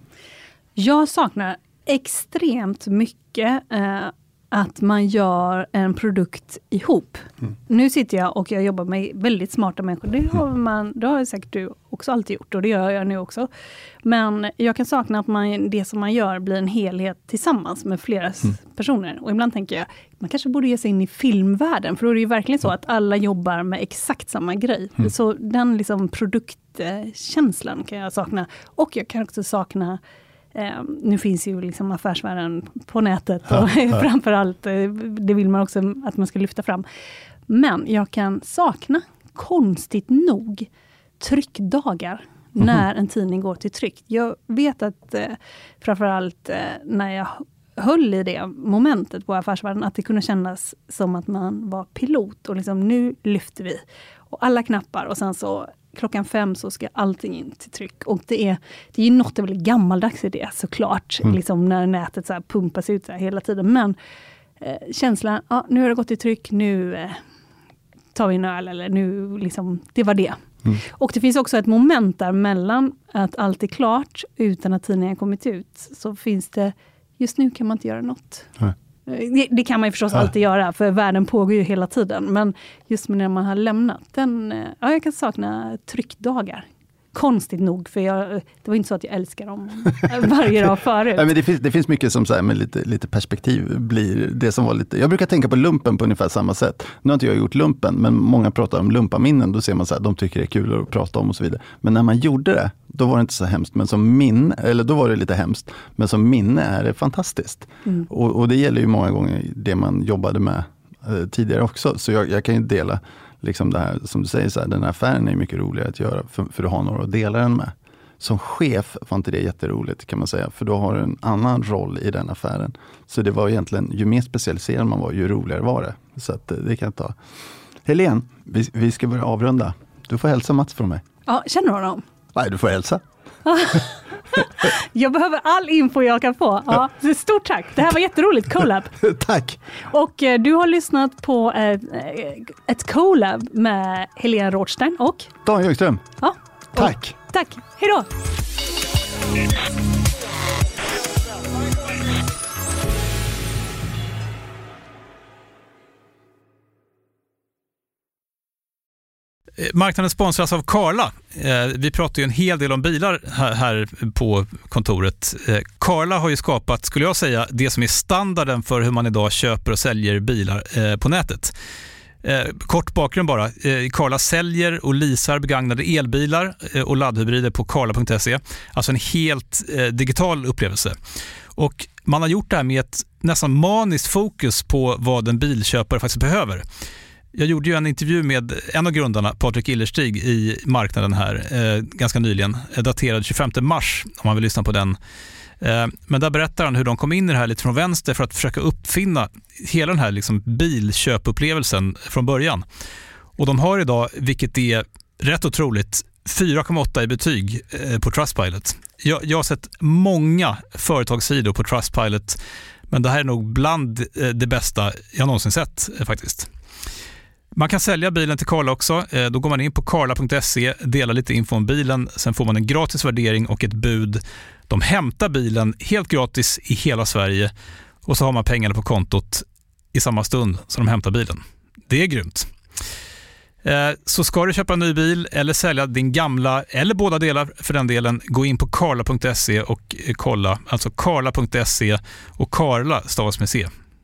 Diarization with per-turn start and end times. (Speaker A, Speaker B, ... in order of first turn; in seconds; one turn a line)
Speaker A: 0.8-13.5
Speaker A: 14.0-30.0
Speaker A: 30.5-36.9
Speaker A: 37.5-40.7
Speaker A: 41.2-64.0
Speaker A: 64.6-67.2
Speaker A: 68.1-78.5
Speaker A: 79.1-91.3
Speaker B: 91.1-127.2
Speaker B: 127.8-131.0
Speaker A: 131.2-132.0
Speaker B: 132.3-133.0
Speaker A: 133.4-138.9
Speaker B: 139.0-139.6
Speaker A: 139.9-145.3
Speaker B: 145.4-146.0
Speaker A: 146.2-148.1
Speaker B: 146.7-147.2
Speaker C: 159.6-171.5
Speaker C: 172.2-180.9
Speaker C: 181.6-186.6
Speaker C: 187.3-194.9
Speaker C: 195.6-202.6
Speaker C: 203.4-212.4
Speaker C: 212.9-216.5
Speaker C: 217.5-227.5
Speaker C: 228.0-232.5
Speaker C: 233.6-243.7